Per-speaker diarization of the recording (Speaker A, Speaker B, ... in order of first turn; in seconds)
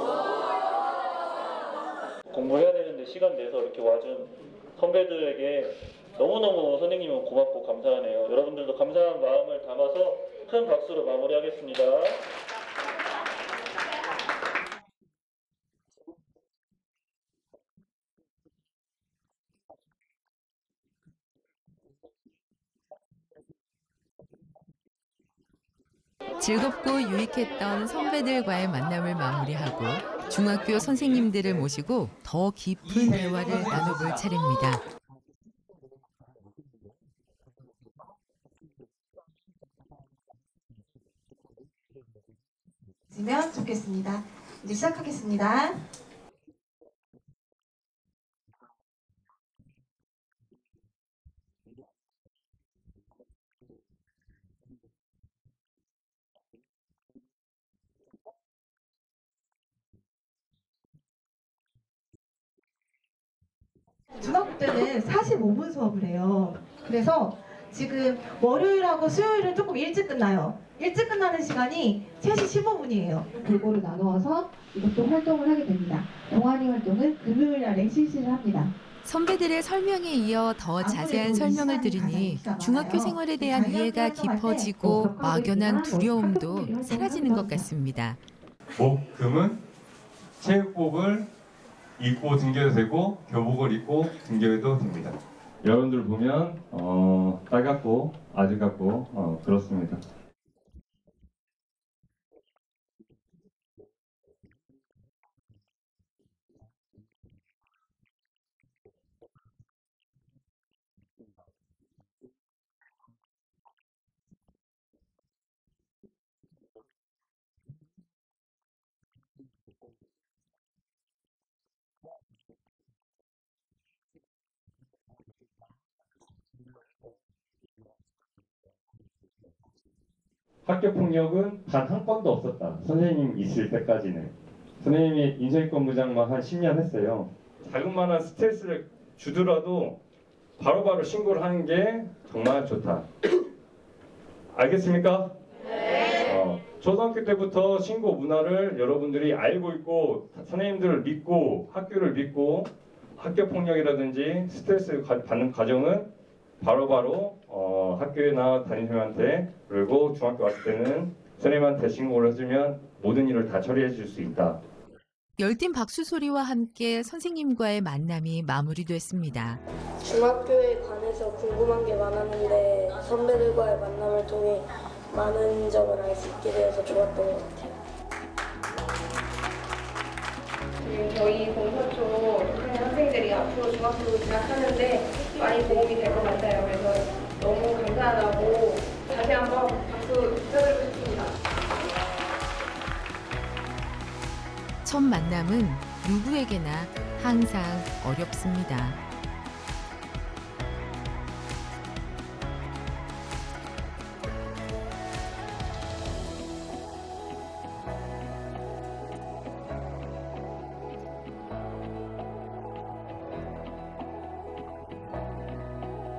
Speaker A: 2.3-12.2
Speaker B: 26.4-34.8, 79.0-88.2, 165.4-169.6, 194.8-199.0
Speaker C: 43.1-45.8, 64.2-78.7, 80.8-87.7
Speaker D: 88.8-89.6, 90.4-91.3, 92.0-100.0, 130.6-140.0, 140.6-143.0, 144.5-145.3, 146.2-164.6
Speaker E: 170.0-177.8
Speaker F: 180.8-191.3